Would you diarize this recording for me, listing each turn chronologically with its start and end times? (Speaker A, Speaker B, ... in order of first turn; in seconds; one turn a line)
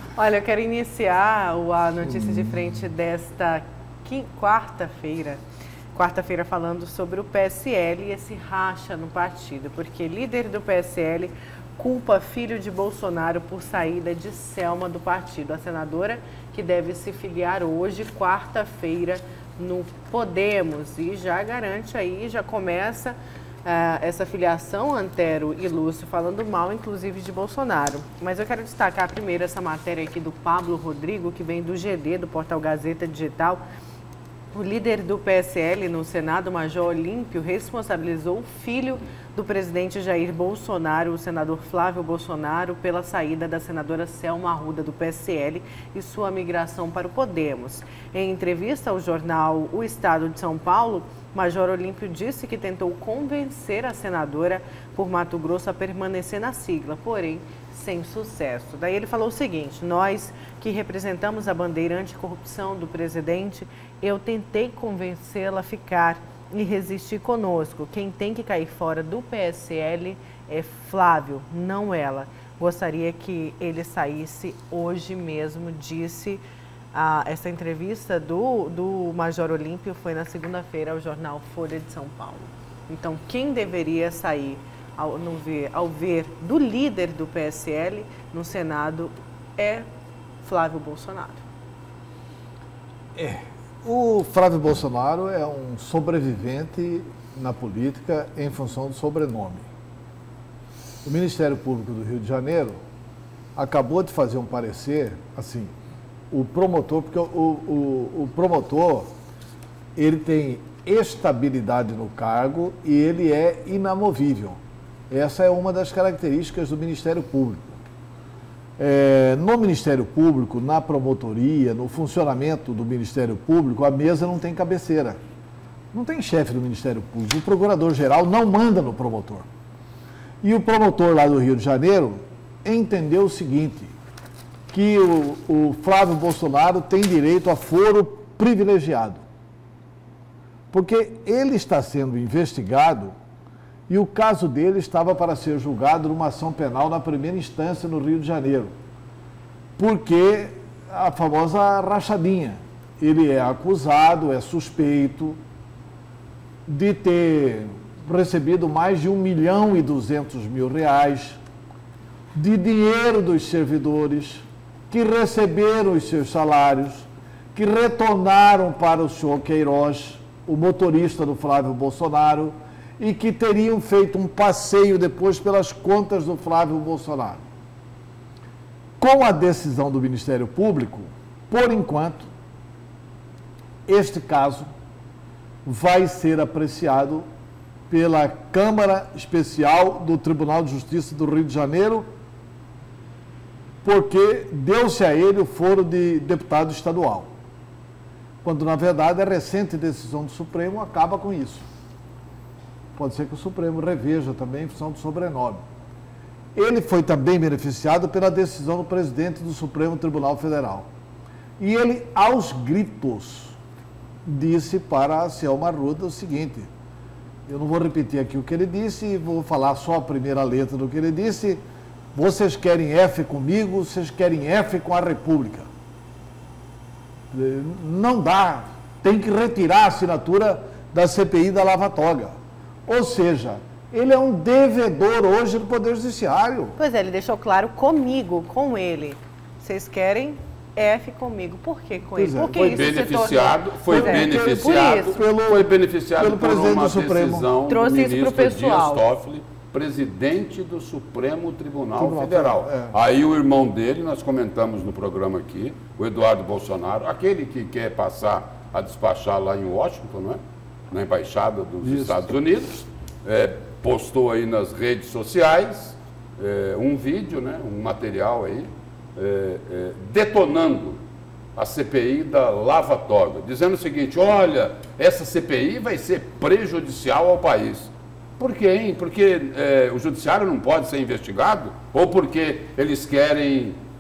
Speaker A: 0.2-5.4
Speaker B: 2.1-2.6
Speaker A: 6.0-33.6
Speaker A: 34.5-76.4
Speaker A: 76.9-89.8
Speaker A: 90.4-91.4
Speaker B: 93.2-99.7
Speaker B: 101.0-102.8
Speaker B: 103.6-105.7
Speaker B: 106.3-109.1
Speaker B: 110.0-114.6
Speaker B: 115.1-117.8
Speaker B: 118.8-125.2
Speaker B: 125.9-129.5
Speaker B: 130.4-134.0
Speaker B: 134.7-139.2
Speaker B: 140.7-143.2
Speaker B: 143.9-148.8
Speaker B: 149.8-155.4
Speaker B: 156.7-161.4
Speaker B: 162.3-177.5
Speaker B: 179.0-182.3
Speaker B: 183.9-184.7
Speaker B: 185.7-187.3
Speaker B: 187.9-192.1
Speaker B: 193.8-197.3
Speaker B: 198.4-201.7
Speaker B: 202.9-205.7
Speaker B: 206.6-210.9
Speaker B: 211.6-213.6
Speaker B: 214.2-216.7
Speaker B: 217.5-221.6
Speaker B: 222.1-225.7
Speaker B: 227.3-232.4
Speaker B: 232.9-236.8
Speaker A: 236.8-245.2
Speaker B: 242.2-243.1
Speaker C: 242.7-260.4
Speaker B: 243.9-247.5
Speaker A: 247.7-249.0
Speaker B: 252.0-252.9
Speaker C: 260.9-271.0
Speaker B: 261.8-262.3
Speaker C: 271.6-283.8